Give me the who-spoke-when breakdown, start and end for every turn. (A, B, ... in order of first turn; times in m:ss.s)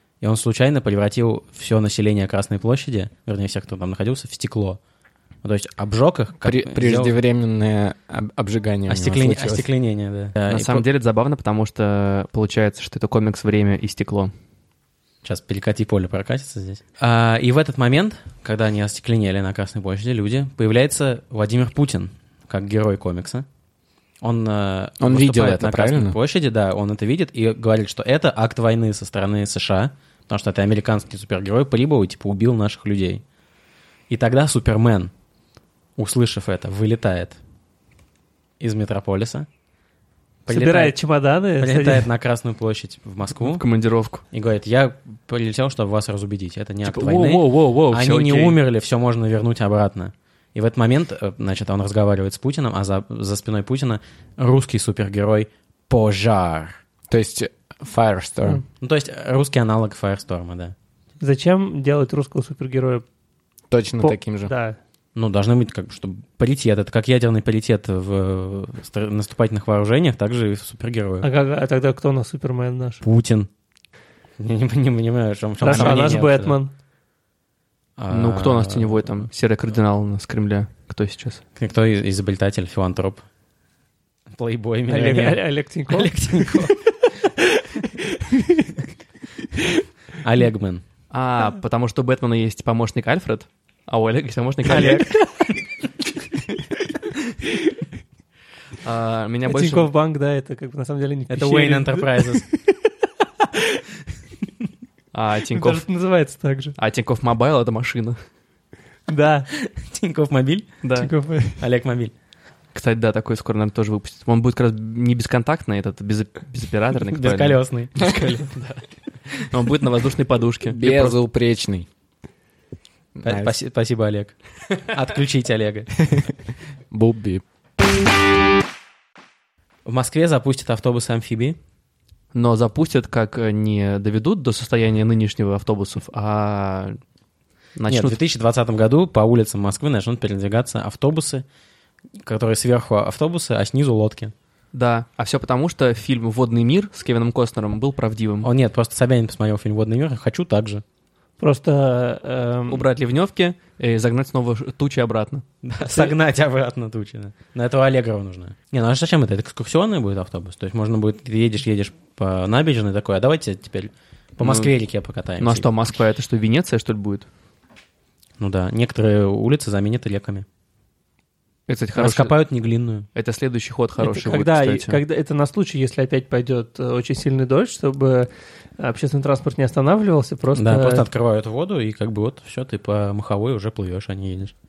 0:00.2-0:04.8 A
0:05.4-0:07.2 A
0:06.4-0:09.7 B
0:08.9-0:10.8 A
0:10.5-0:14.3 C
0:15.2-0:23.5 A
0:24.2-0:33.2 A
0:25.0-0:26.2 B
0:34.1-0:35.1 A
0:36.0-0:37.4 A
0:38.6-0:39.5 A
0:40.5-0:42.1 D
0:40.5-0:40.9 A
0:41.6-0:43.6 A
0:43.4-0:44.2 C
0:44.3-0:56.8 A
0:46.8-0:48.6 C
0:57.1-0:58.6 B
0:58.8-1:00.7 A
1:01.2-1:03.0 D
1:03.7-1:04.5 B
1:04.0-1:04.8 D
1:05.2-1:11.3 A
1:11.2-1:13.0 D
1:13.0-1:13.5 A
1:14.4-1:16.6 A
1:15.6-1:16.7 D
1:15.7-1:16.0 C
1:18.0-1:19.3 A
1:18.1-1:21.4 C
1:21.6-1:23.2 A
1:24.3-1:26.8 A
1:24.9-1:28.8 D
1:30.2-1:30.8 A
1:31.1-1:35.1 C
1:34.7-1:35.3 A
1:34.8-1:35.2 D
1:38.8-1:39.9 C
1:39.5-1:42.9 D
1:41.3-1:42.4 A
1:43.4-1:43.8 D
1:45.1-1:45.8 C
1:45.5-1:46.7 D
1:46.8-1:48.2 C
1:49.1-1:49.5 D
1:49.6-1:50.7 A
1:50.8-1:51.1 C
1:51.0-1:51.6 D
1:51.6-1:52.1 A
1:52.8-2:01.2 C
1:57.1-1:58.0 A
2:00.7-2:01.9 B
2:03.2-2:03.6 B
2:03.2-2:05.9 A
2:06.9-2:07.4 B
2:09.9-2:11.6 A
2:12.3-2:17.0 C
2:17.8-2:18.2 C
2:17.9-2:21.4 A
2:22.2-2:24.3 A
2:24.7-2:28.5 C
2:28.4-2:30.8 A
2:31.4-2:32.8 D
2:32.7-2:36.0 C
2:35.6-2:45.7 A
2:44.4-2:44.7 C
2:45.4-2:47.3 C
2:48.4-2:50.5 A
2:51.7-2:52.3 C
2:52.0-2:53.1 A
2:53.2-2:55.0 C
2:54.0-3:01.0 D
3:00.5-3:04.5 A